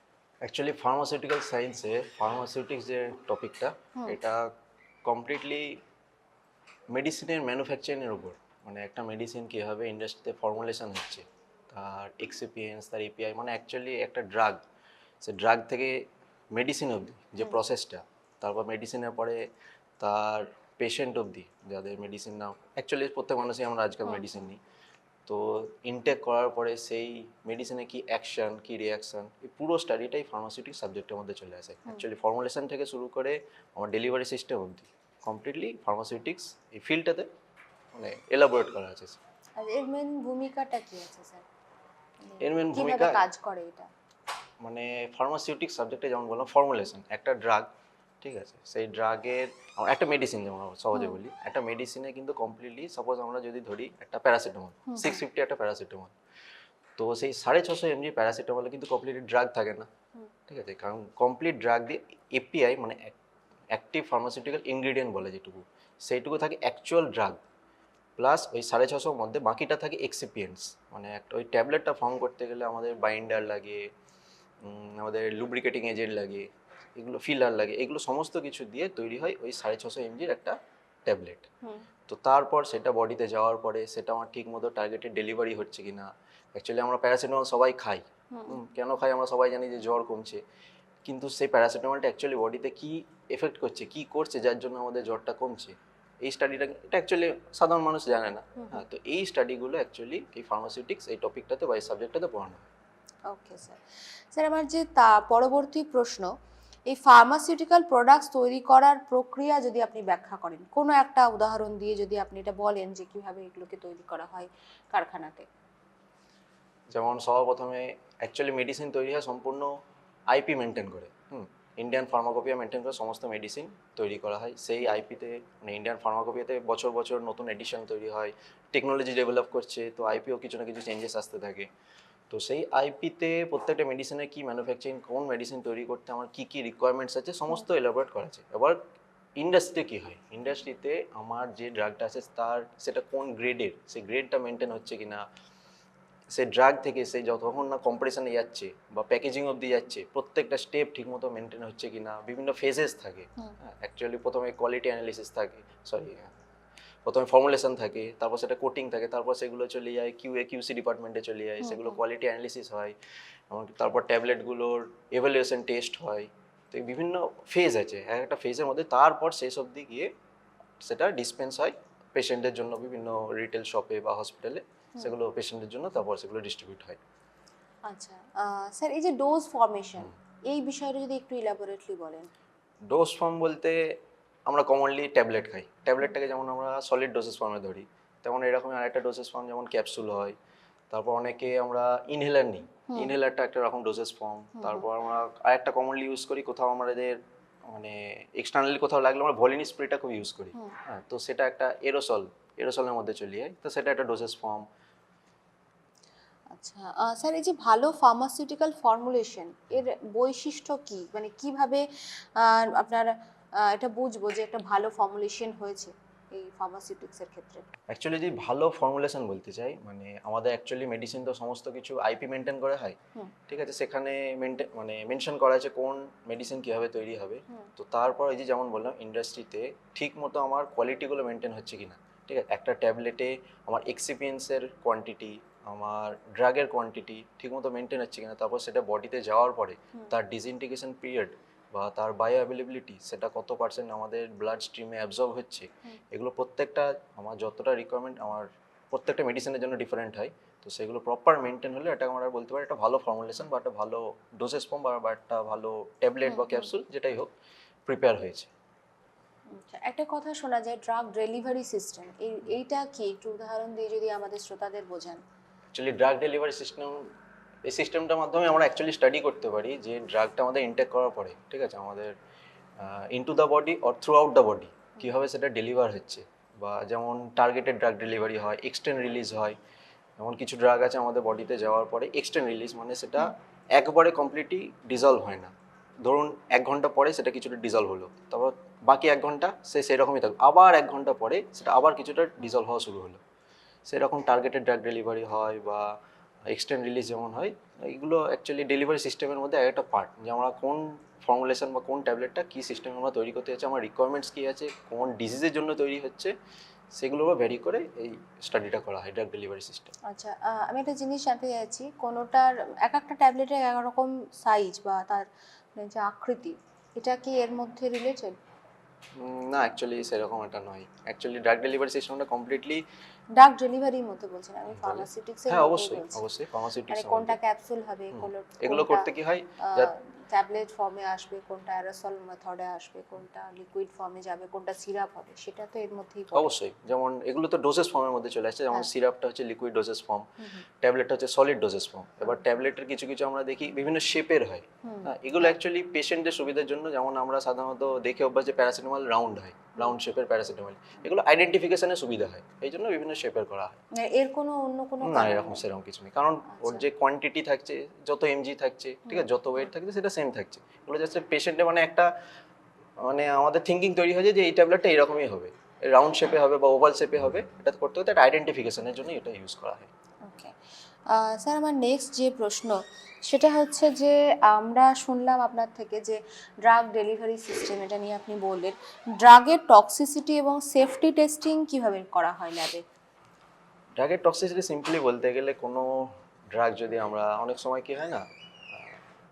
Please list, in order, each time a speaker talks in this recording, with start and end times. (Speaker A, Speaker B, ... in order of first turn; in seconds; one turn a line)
Speaker A: 0.4-4.5
Speaker A: 5.0-5.8
Speaker A: 6.9-14.6
Speaker A: 15.2-19.4
Speaker A: 20.0-24.6
Speaker A: 25.2-37.3
Speaker A: 37.9-39.2
Speaker B: 39.6-41.4
Speaker B: 42.3-43.9
Speaker A: 42.4-43.2
Speaker A: 44.6-47.7
Speaker A: 48.2-56.1
Speaker B: 54.9-55.2
Speaker A: 57.0-59.9
Speaker A: 60.5-63.2
Speaker A: 63.7-67.4
Speaker A: 68.2-73.8
Speaker A: 74.6-81.5
Speaker A: 82.1-90.4
Speaker B: 88.3-88.6
Speaker A: 91.0-102.7
Speaker B: 103.3-103.8
Speaker B: 104.3-106.3
Speaker B: 106.9-115.5
Speaker A: 116.9-119.7
Speaker A: 120.3-131.7
Speaker A: 132.3-138.8
Speaker A: 139.4-145.2
Speaker A: 146.3-156.3
Speaker A: 157.0-162.9
Speaker B: 161.6-161.9
Speaker A: 163.5-170.1
Speaker A: 170.8-177.0
Speaker B: 177.9-182.3
Speaker A: 182.9-190.3
Speaker A: 190.9-204.6
Speaker B: 194.6-194.8
Speaker B: 206.5-217.7
Speaker A: 217.9-223.0
Speaker A: 223.5-257.3
Speaker B: 256.3-256.6
Speaker A: 257.9-258.5
Speaker B: 259.5-265.2
Speaker A: 265.7-267.1
Speaker A: 267.6-272.1
Speaker A: 272.8-279.6
Speaker A: 280.2-293.2
Speaker A: 293.9-295.9
Speaker A: 296.5-306.3
Speaker A: 306.9-309.9
Speaker B: 310.1-318.4
Speaker A: 319.2-322.8
Speaker B: 323.4-326.2
Speaker A: 324.8-327.4
Speaker B: 326.9-329.1
Speaker A: 328.1-329.9
Speaker B: 329.6-336.5
Speaker A: 336.3-340.3
Speaker A: 340.8-353.8
Speaker B: 344.8-345.1
Speaker B: 353.9-355.6
Speaker A: 355.0-362.1
Speaker B: 356.5-356.8
Speaker A: 363.0-369.9
Speaker B: 370.2-370.5
Speaker B: 371.1-382.8
Speaker A: 383.9-388.9